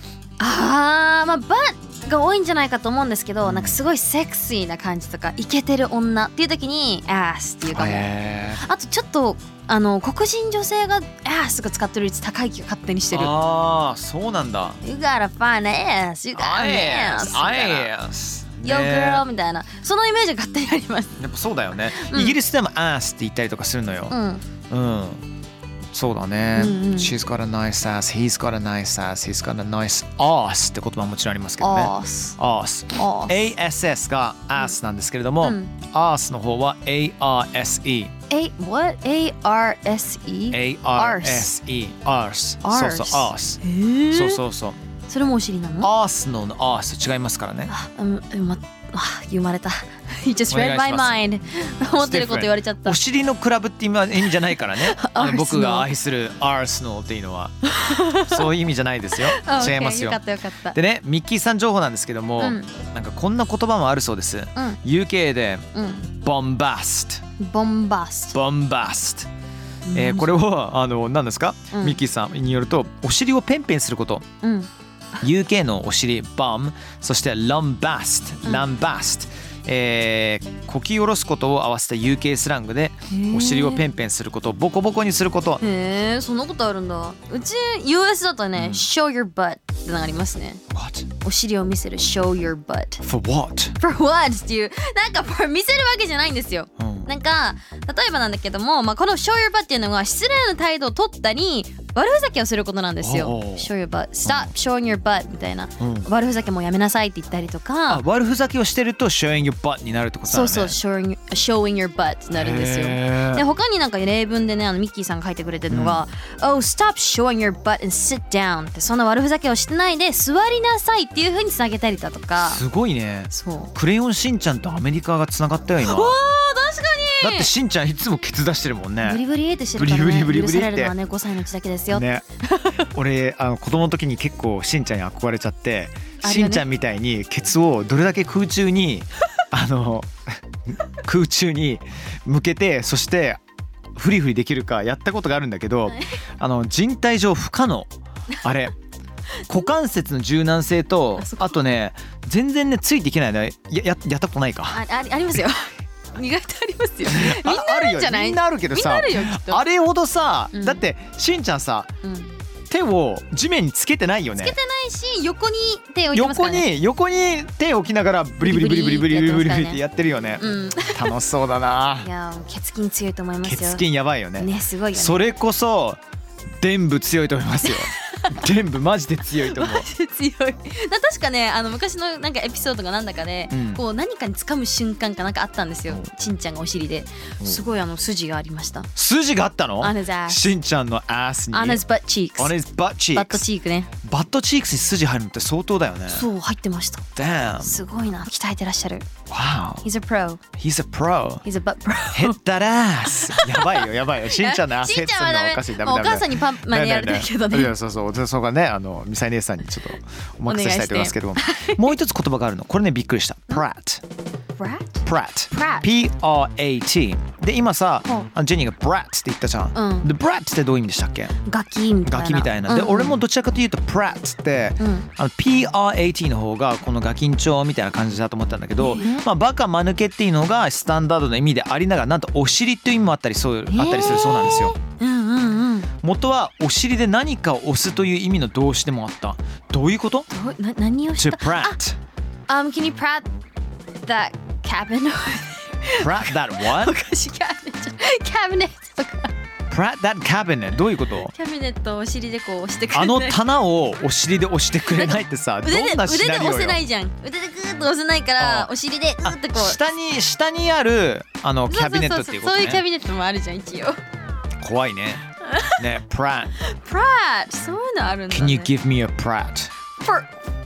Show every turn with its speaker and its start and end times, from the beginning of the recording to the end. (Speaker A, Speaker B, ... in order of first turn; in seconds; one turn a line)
Speaker A: 0.4-13.4
Speaker B: 3.4-3.8
Speaker B: 7.7-8.6
Speaker B: 13.1-14.8
Speaker A: 14.8-17.9
Speaker B: 16.3-19.2
Speaker A: 18.6-21.1
Speaker B: 21.2-24.2
Speaker A: 22.0-22.4
Speaker A: 24.1-24.4
Speaker B: 24.7-25.2
Speaker B: 25.9-38.1
Speaker A: 26.6-27.1
Speaker A: 31.6-32.4
Speaker A: 33.0-33.5
Speaker A: 35.4-35.7
Speaker A: 38.3-41.5
Speaker B: 40.5-44.8
Speaker A: 42.6-44.4
Speaker A: 45.1-45.9
Speaker B: 45.8-47.7
Speaker A: 47.7-53.0
Speaker B: 50.5-51.2
Speaker B: 52.0-57.5
Speaker A: 54.6-55.9
Speaker A: 57.7-58.4
Speaker B: 58.1-60.2
Speaker A: 59.2-60.8
Speaker B: 60.7-67.2
Speaker A: 62.4-62.7
Speaker A: 65.8-66.1
Speaker A: 67.4-68.3
Speaker B: 68.3-69.3
Speaker A: 69.9-70.3
Speaker B: 69.9-74.3
Speaker A: 71.7-72.0
Speaker A: 74.4-74.7
Speaker B: 75.2-85.6
Speaker A: 78.4-78.7
Speaker A: 83.1-83.9
Speaker A: 85.6-90.6
Speaker B: 88.6-88.8
Speaker B: 90.7-91.1
Speaker A: 91.2-93.0
Speaker B: 93.0-93.8
Speaker A: 93.8-108.0
Speaker B: 96.8-97.1
Speaker B: 103.0-103.7
Speaker B: 104.2-104.5
Speaker B: 105.8-106.1
Speaker B: 107.9-110.8
Speaker A: 110.3-122.6
Speaker B: 112.3-113.5
Speaker B: 115.7-116.0
Speaker B: 122.4-126.2
Speaker A: 123.3-123.7
Speaker A: 125.8-127.5
Speaker B: 127.2-129.2
Speaker A: 129.0-132.7
Speaker B: 129.8-130.9
Speaker B: 131.9-132.3
Speaker B: 132.8-143.4
Speaker A: 136.2-136.7
Speaker B: 144.0-147.9
Speaker B: 148.4-148.7
Speaker B: 149.5-154.8
Speaker A: 151.2-151.6
Speaker A: 154.7-159.6
Speaker B: 157.1-161.9
Speaker A: 160.5-160.8
Speaker A: 162.0-162.3
Speaker B: 162.7-164.6
Speaker A: 164.4-166.7
Speaker B: 166.1-172.1
Speaker A: 168.4-169.8
Speaker A: 170.4-171.1
Speaker A: 172.0-175.3
Speaker B: 173.4-176.0
Speaker B: 176.6-179.9
Speaker A: 177.6-178.3
Speaker A: 179.4-188.9
Speaker B: 183.5-183.8
Speaker B: 189.0-191.8
Speaker A: 189.8-190.4
Speaker A: 191.5-192.6
Speaker B: 192.4-193.4
Speaker A: 193.1-193.9
Speaker B: 194.0-196.3
Speaker A: 196.1-197.1
Speaker B: 197.2-197.8
Speaker A: 197.6-199.1
Speaker B: 199.3-199.8
Speaker A: 199.8-200.4
Speaker B: 200.6-201.4
Speaker A: 201.4-202.4
Speaker B: 202.1-214.0
Speaker A: 203.1-207.7
Speaker A: 210.5-211.9
Speaker A: 214.6-215.9
Speaker B: 215.1-221.3
Speaker A: 219.8-220.1
Speaker A: 221.5-223.2
Speaker B: 222.1-234.8
Speaker A: 224.8-225.1
Speaker A: 228.8-229.2
Speaker A: 233.7-235.9
Speaker B: 236.0-240.3
Speaker A: 240.3-241.8
Speaker B: 241.2-242.0
Speaker A: 242.5-243.3
Speaker A: 244.0-249.3
Speaker B: 245.9-247.0
Speaker B: 249.7-251.3
Speaker A: 251.3-253.4
Speaker B: 252.9-256.8
Speaker A: 254.9-259.8
Speaker B: 258.4-258.7
Speaker B: 259.2-262.8
Speaker A: 261.7-264.0
Speaker B: 264.6-265.2
Speaker A: 265.5-265.8
Speaker B: 265.8-266.6
Speaker A: 266.7-268.7
Speaker B: 268.3-269.7
Speaker A: 270.0-270.3